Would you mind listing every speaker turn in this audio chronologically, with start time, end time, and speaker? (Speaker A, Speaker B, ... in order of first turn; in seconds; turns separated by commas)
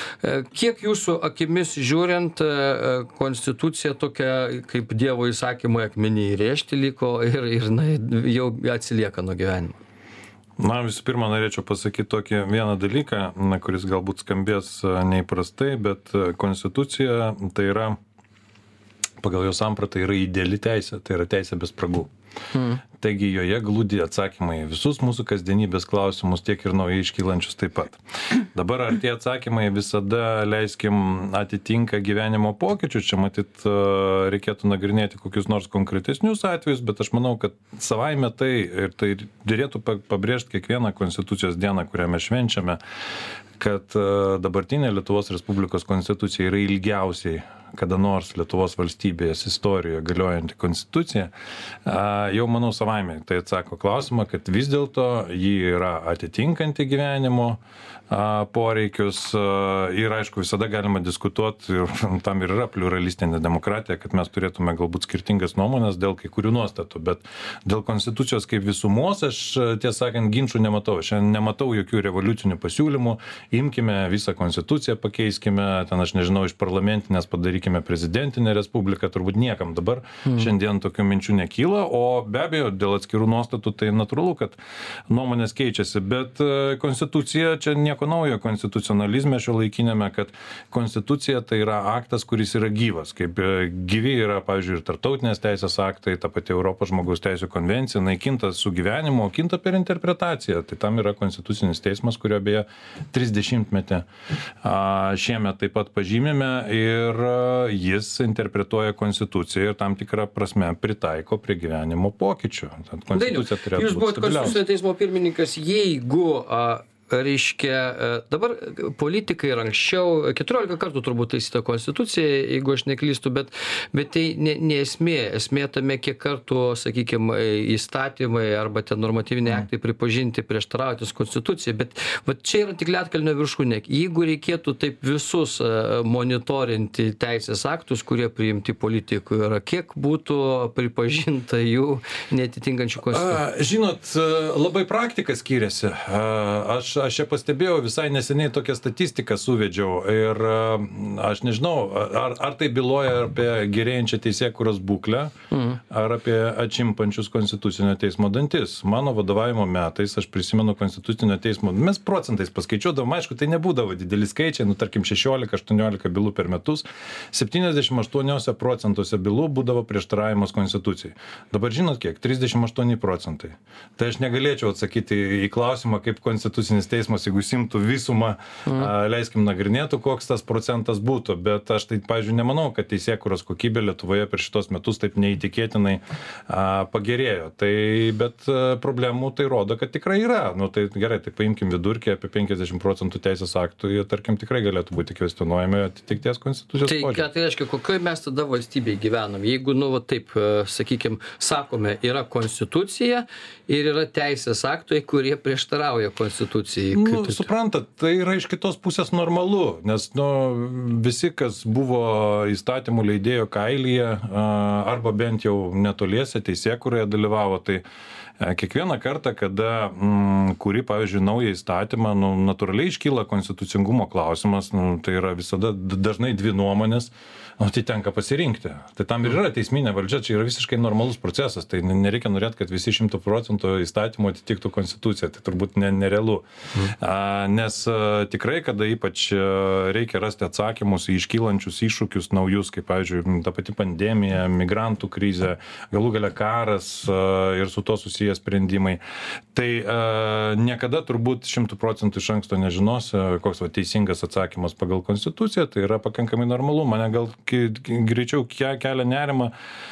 Speaker A: 0.2-9.8, Speaker B: 10.6-18.0, Speaker B: 19.2-22.1, Speaker A: 22.5-22.8, Speaker B: 22.9-42.8, Speaker B: 43.6-51.3, Speaker B: 51.9-84.6, Speaker A: 80.2-80.5, Speaker B: 85.1-104.1, Speaker B: 104.6-114.6, Speaker A: 113.1-143.4, Speaker B: 143.1-197.2, Speaker A: 155.5-155.8, Speaker A: 196.8-207.5, Speaker B: 206.9-217.8, Speaker B: 218.4-249.0, Speaker B: 249.5-259.5